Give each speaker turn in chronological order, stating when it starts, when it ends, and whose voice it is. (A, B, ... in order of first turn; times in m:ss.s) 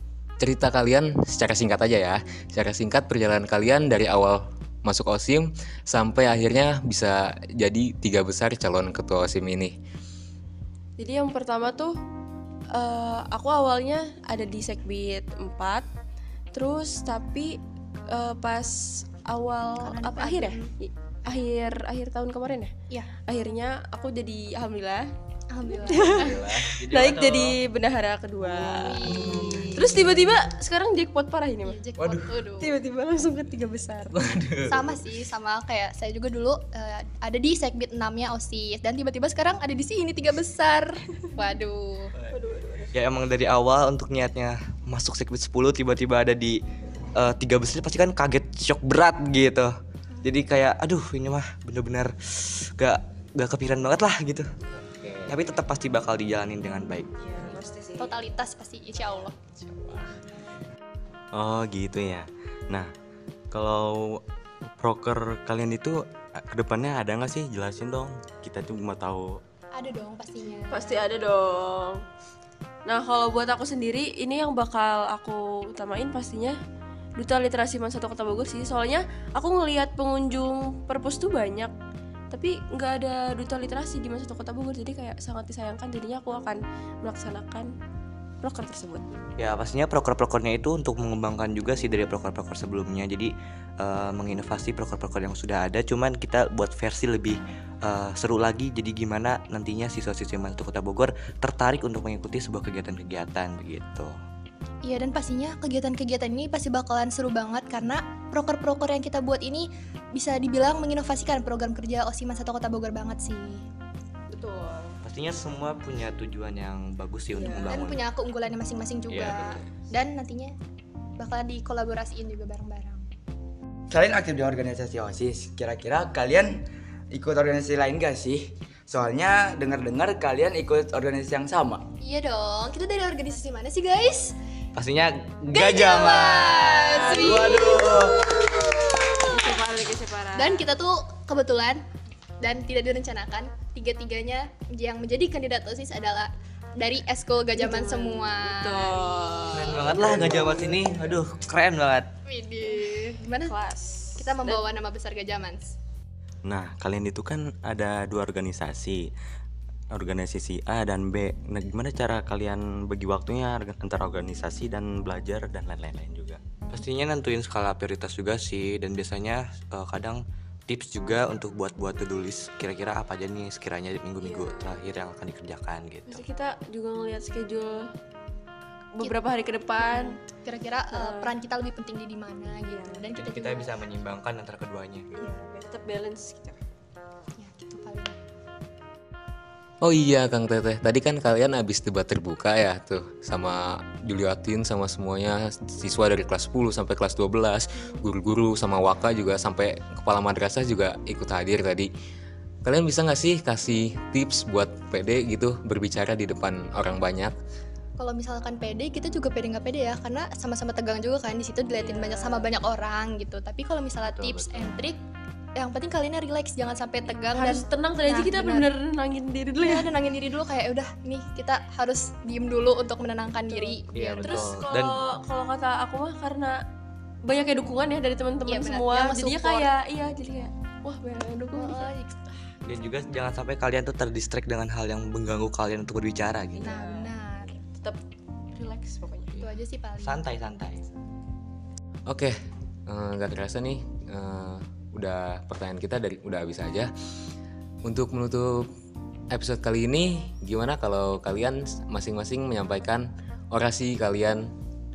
0:00.4-0:09.8 A
0:11.0-0:12.0 B
0:12.7-0:15.8 B
0:16.5-0:17.6 B
0:18.1-0:22.7 B
0:19.8-0:20.7 C
0:22.9-0:23.2 C
0:23.2-0:25.1 B
0:25.5-0:26.4 C
0:25.8-0:31.8 B
0:26.2-0:27.6 D
0:28.5-0:29.8 C
0:31.6-0:32.7 C
0:32.0-0:32.3 D
0:32.6-0:34.3 B
0:34.2-0:34.9 D
0:34.6-0:42.1 C
0:42.3-0:42.9 B
0:42.9-0:46.6 D
0:47.1-0:54.5 D
0:54.8-0:55.3 A
0:55.3-0:57.1 D
0:57.2-0:58.2 B
0:58.0-0:59.3 C
1:01.3-1:02.9 E
1:03.5-1:04.2 E
1:04.8-1:06.0 E
1:06.5-1:09.4 E
1:09.7-1:11.0 C
1:10.7-1:12.0 B
1:12.8-1:16.6 B
1:17.2-1:21.7 B
1:22.3-1:27.7 B
1:28.4-1:29.0 B
1:29.4-1:44.1 D
1:44.8-1:53.6 C
1:54.3-1:55.0 B
1:55.0-1:58.0 D
1:57.3-1:57.8 B
1:57.6-2:00.5 C
1:59.1-1:59.6 D
2:01.2-2:03.0 C
2:03.9-2:11.8 F
2:12.0-2:14.3 C
2:14.7-2:17.8 D
2:15.5-2:19.4 C
2:17.2-2:18.2 F
2:19.3-2:20.6 B
2:20.4-2:21.8 C
2:22.4-2:29.0 C
2:27.6-2:30.1 B
2:29.5-2:32.1 D
2:32.2-2:33.5 C
2:33.4-2:34.7 B
2:34.2-2:35.7 C
2:36.4-2:39.0 E
2:39.9-2:46.4 E
2:46.7-2:56.2 D
2:54.2-2:54.8 B
2:56.1-2:57.9 B
2:58.9-3:00.2 B
2:59.8-3:03.8 C
3:00.9-3:01.3 B
3:02.7-3:03.1 B
3:03.2-3:05.1 D
3:05.1-3:06.6 B
3:07.4-3:08.2 C
3:09.8-3:21.9 A
3:22.6-3:27.3 A
3:28.0-3:35.0 C
3:31.8-3:32.5 B
3:34.0-3:34.7 D
3:35.6-3:38.7 C
3:37.3-3:39.9 B
3:39.6-3:44.6 C
3:43.5-3:46.6 B
3:43.9-3:45.0 D
3:47.2-3:51.9 B
3:48.5-3:49.7 C
3:51.5-3:52.1 C
3:52.6-3:56.7 D
3:56.6-3:58.0 B
3:56.6-3:57.5 C
3:58.5-3:59.3 B
3:59.4-4:00.3 C
4:00.0-4:00.8 D
4:02.1-4:02.4 A
4:02.9-4:06.9 A
4:07.8-4:08.7 A
4:09.3-4:14.5 A